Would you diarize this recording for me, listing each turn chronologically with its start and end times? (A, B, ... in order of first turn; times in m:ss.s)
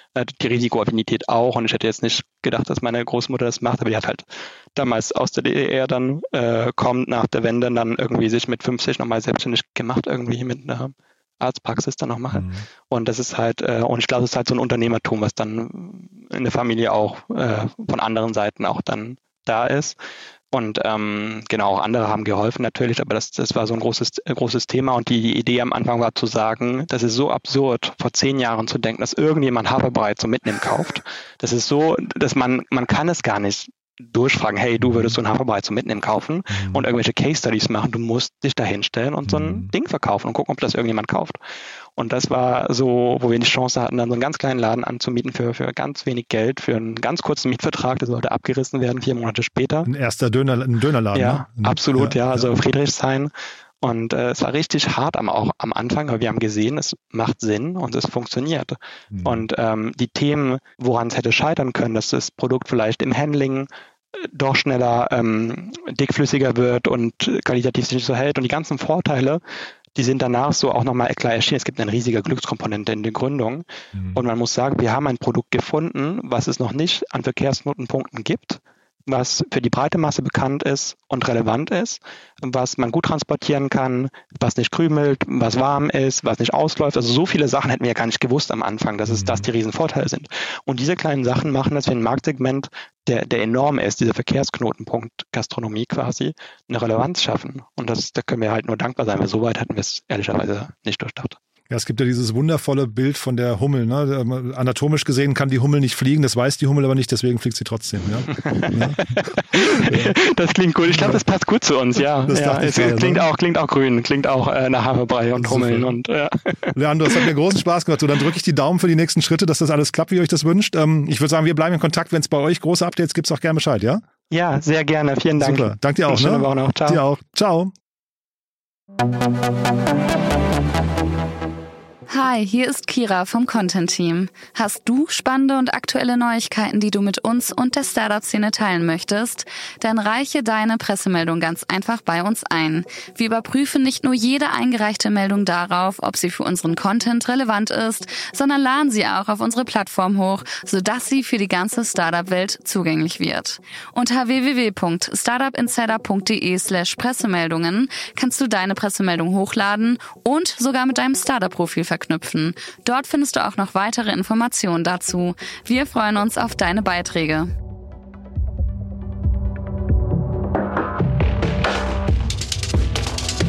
0:00.2-0:20.0 A
0:12.3-0:12.7 B
0:20.5-0:41.4 A
0:34.8-0:35.1 B
0:36.5-0:36.8 B
0:39.3-0:39.7 B
0:42.0-0:49.9 A
0:49.9-0:52.5 B
0:51.1-1:09.4 A
0:59.1-0:59.5 B
1:10.0-1:41.4 A
1:14.0-1:14.2 B
1:29.1-1:29.5 B
1:41.7-1:50.2 B
1:48.3-1:57.3 A
1:50.9-1:51.2 B
1:52.3-1:53.3 B
1:55.4-1:55.9 B
1:56.8-2:04.0 B
2:04.3-2:07.0 A
2:05.4-2:07.7 B
2:12.1-2:47.5 C